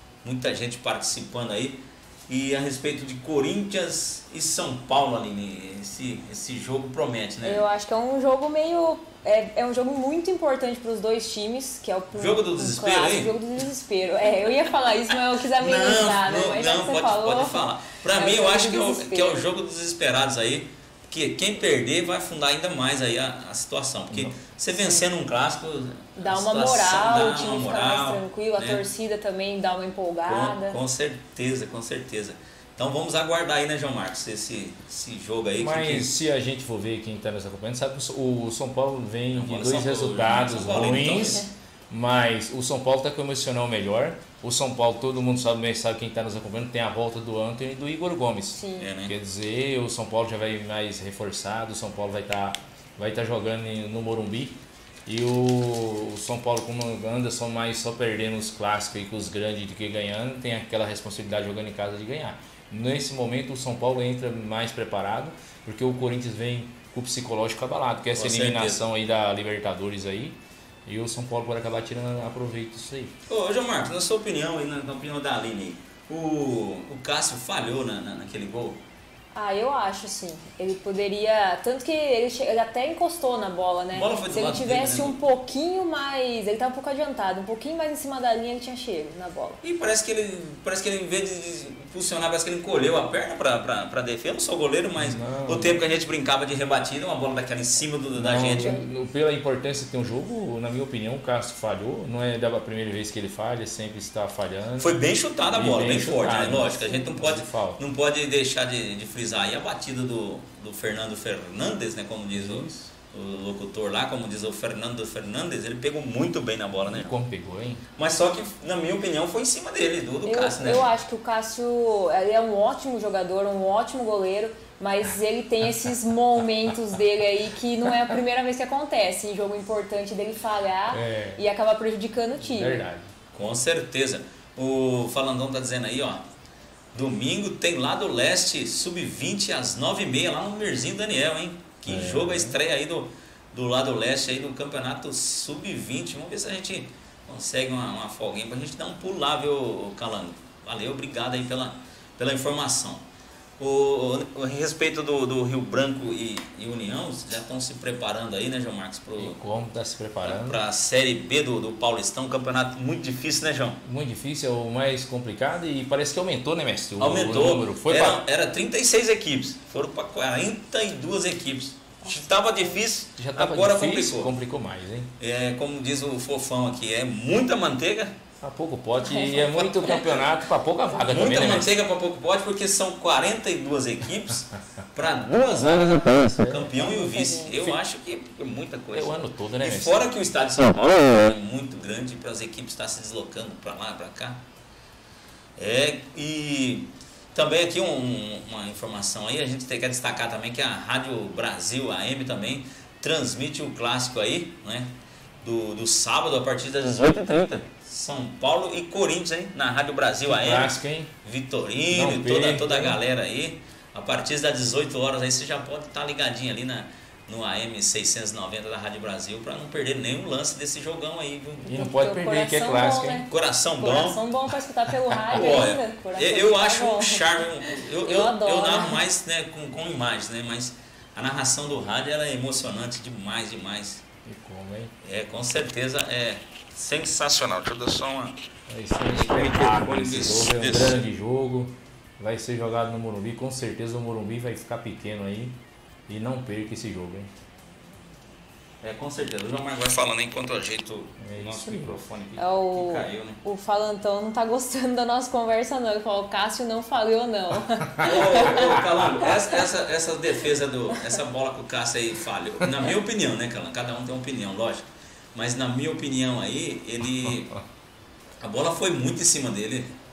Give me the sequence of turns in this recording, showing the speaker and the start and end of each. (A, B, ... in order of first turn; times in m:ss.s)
0:00.2-0:07.6 A
0:07.4-0:17.6 B
0:12.1-0:13.4 A
0:15.6-0:28.8 A
0:18.1-0:19.4 B
0:24.7-0:25.0 B
0:26.2-0:30.8 B
0:30.2-0:36.1 A
0:35.6-1:13.1 C
0:39.3-0:41.5 A
0:48.5-0:48.9 B
0:48.8-0:49.1 A
1:08.1-1:08.8 A
1:13.3-1:18.8 A
1:19.3-1:29.6 B
1:23.9-1:25.2 A
1:29.6-1:38.8 A
1:35.0-1:35.8 C
1:38.1-1:47.8 C
1:38.6-1:38.8 B
1:44.8-1:57.2 A
1:52.3-1:52.9 C
1:56.9-1:57.8 C
1:58.0-2:00.9 A
2:00.2-2:12.8 B
2:10.9-2:11.4 C
2:12.4-2:13.1 C
2:13.3-2:16.2 A
2:16.9-2:33.0 A
2:21.8-2:22.6 C
2:33.6-2:39.4 A
2:39.2-2:40.6 C
2:40.2-2:43.8 A
2:43.8-2:48.2 C
2:47.0-2:54.3 A
2:52.0-2:52.8 B
2:53.2-2:55.1 C
2:55.2-2:58.1 A
2:58.4-3:01.7 C
2:59.0-2:59.5 B
2:59.4-3:00.3 A
3:01.0-3:14.4 A
3:06.4-3:06.7 C
3:06.7-3:07.6 B
3:08.9-3:10.0 C
3:15.6-3:24.9 A
3:25.4-3:41.7 A
3:30.3-3:31.1 C
3:31.9-3:33.0 C
3:41.6-3:49.0 B
3:41.7-3:43.2 C
3:43.3-3:44.2 A
3:45.3-3:54.0 A
3:54.2-3:54.9 C
3:55.0-3:58.4 A
3:58.7-4:05.6 C
3:59.0-4:01.0 A
4:06.1-4:07.3 C
4:08.8-4:13.4 A
4:11.2-4:12.0 C
4:12.4-4:18.6 B
4:18.0-4:27.6 A
4:28.4-4:29.9 A